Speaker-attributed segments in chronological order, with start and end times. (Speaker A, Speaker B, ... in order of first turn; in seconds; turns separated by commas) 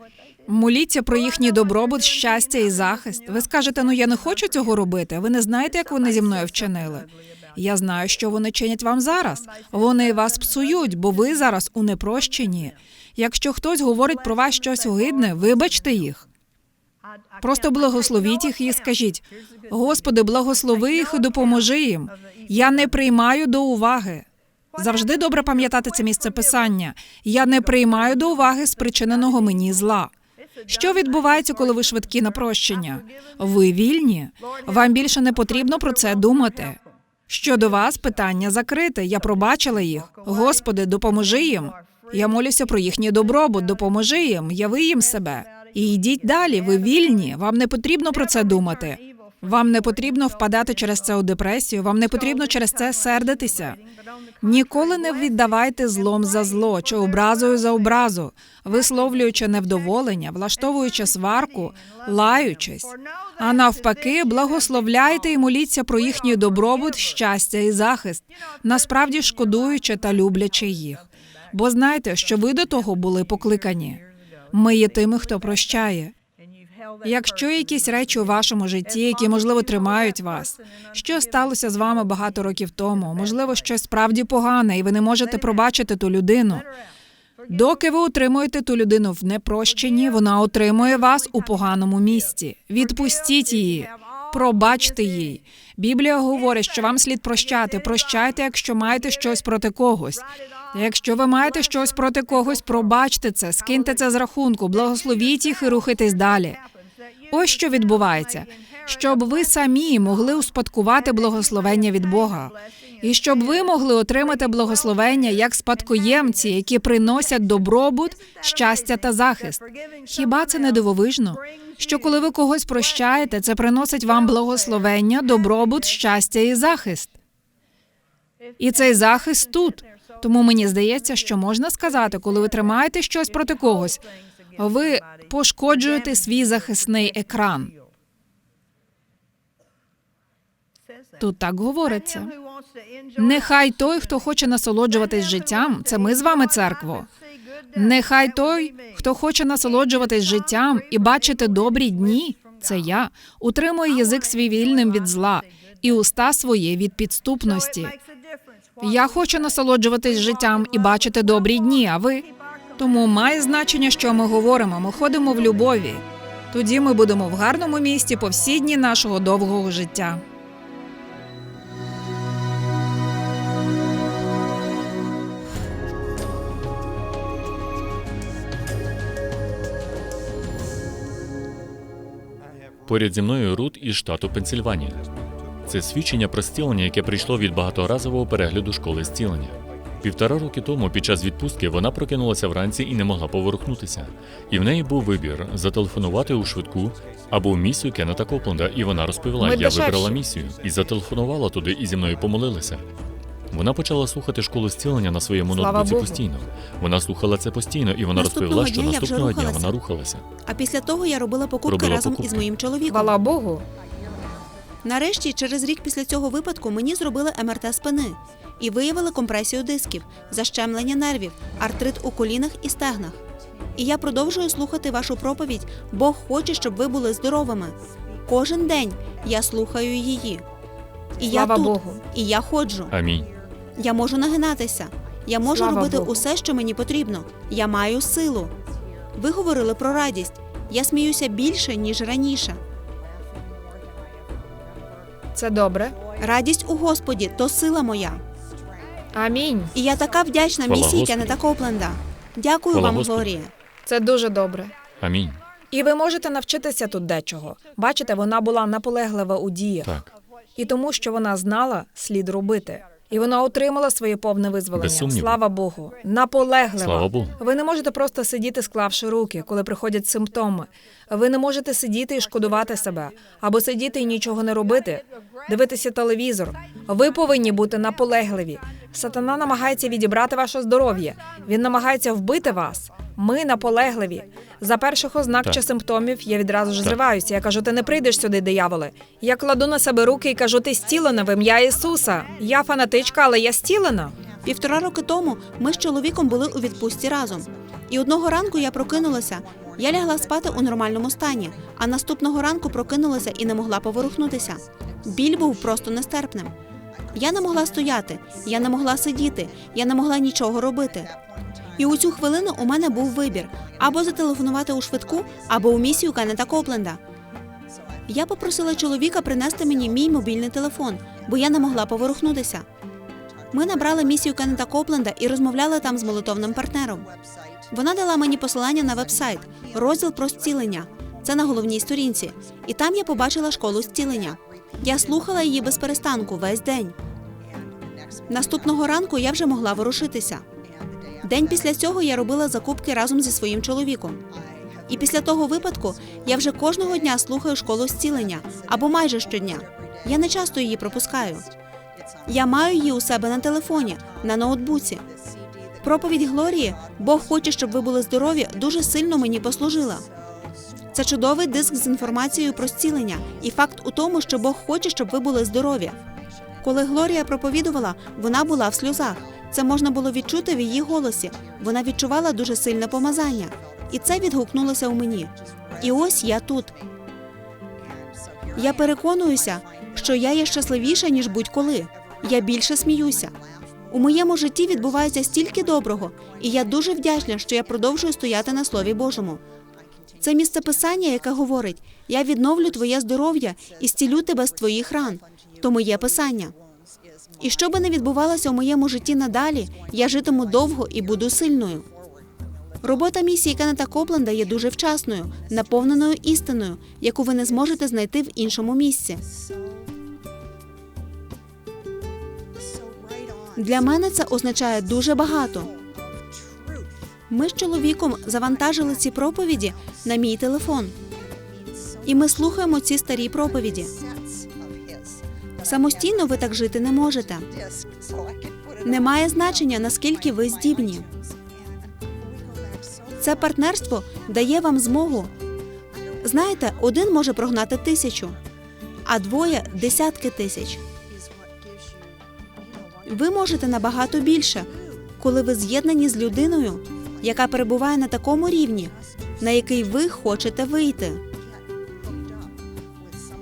Speaker A: 0.5-16.3, Speaker A: 17.4-30.1, Speaker A: 30.7-36.8, Speaker A: 37.3-53.8, Speaker A: 54.4-76.1, Speaker A: 77.0-86.7, Speaker A: 87.5-106.6, Speaker A: 107.3-127.2, Speaker A: 128.6-134.0, Speaker A: 134.6-137.7, Speaker A: 141.2-142.3, Speaker A: 143.2-147.1, Speaker A: 147.7-158.0, Speaker A: 158.8-170.2, Speaker B: 182.9-185.0, Speaker B: 185.7-202.9, Speaker A: 199.4-200.2, Speaker B: 203.5-210.2, Speaker A: 205.5-206.2, Speaker C: 208.2-209.7, Speaker C: 210.5-213.2, Speaker B: 211.7-212.5, Speaker A: 212.9-213.7, Speaker C: 214.8-223.2, Speaker C: 223.8-227.8, Speaker C: 228.3-230.4, Speaker C: 231.2-232.9, Speaker A: 231.3-232.0, Speaker B: 232.9-233.3, Speaker C: 233.8-238.5, Speaker A: 235.5-236.2, Speaker C: 239.2-242.6, Speaker A: 245.3-246.0, Speaker C: 246.2-248.2, Speaker A: 249.2-249.7, Speaker C: 249.8-253.5, Speaker B: 250.7-251.4, Speaker B: 252.7-253.3, Speaker A: 253.9-254.7, Speaker B: 255.0-255.4, Speaker A: 255.7-259.9, Speaker B: 259.8-260.1, Speaker A: 260.6-294.1, Speaker B: 264.8-265.4, Speaker B: 266.8-267.4, Speaker C: 294.4-306.5, Speaker C: 307.1-311.1, Speaker C: 311.8-317.0, Speaker C: 318.1-322.6, Speaker C: 323.5-327.1, Speaker C: 327.7-336.9, Speaker C: 338.3-340.4, Speaker C: 341.2-344.2, Speaker C: 344.9-351.5, Speaker C: 352.3-355.0, Speaker C: 355.8-360.1, Speaker C: 360.9-366.0, Speaker C: 366.6-376.8, Speaker C: 378.6-383.3, Speaker C: 383.9-389.4, Speaker C: 390.2-396.5, Speaker C: 397.4-401.9, Speaker C: 402.8-409.2, Speaker C: 413.6-415.7, Speaker C: 417.3-420.9, Speaker C: 422.1-423.9, Speaker C: 425.6-427.5, Speaker C: 428.8-431.1, Speaker C: 433.2-435.3, Speaker C: 436.2-438.4, Speaker C: 439.1-440.8, Speaker C: 443.1-451.2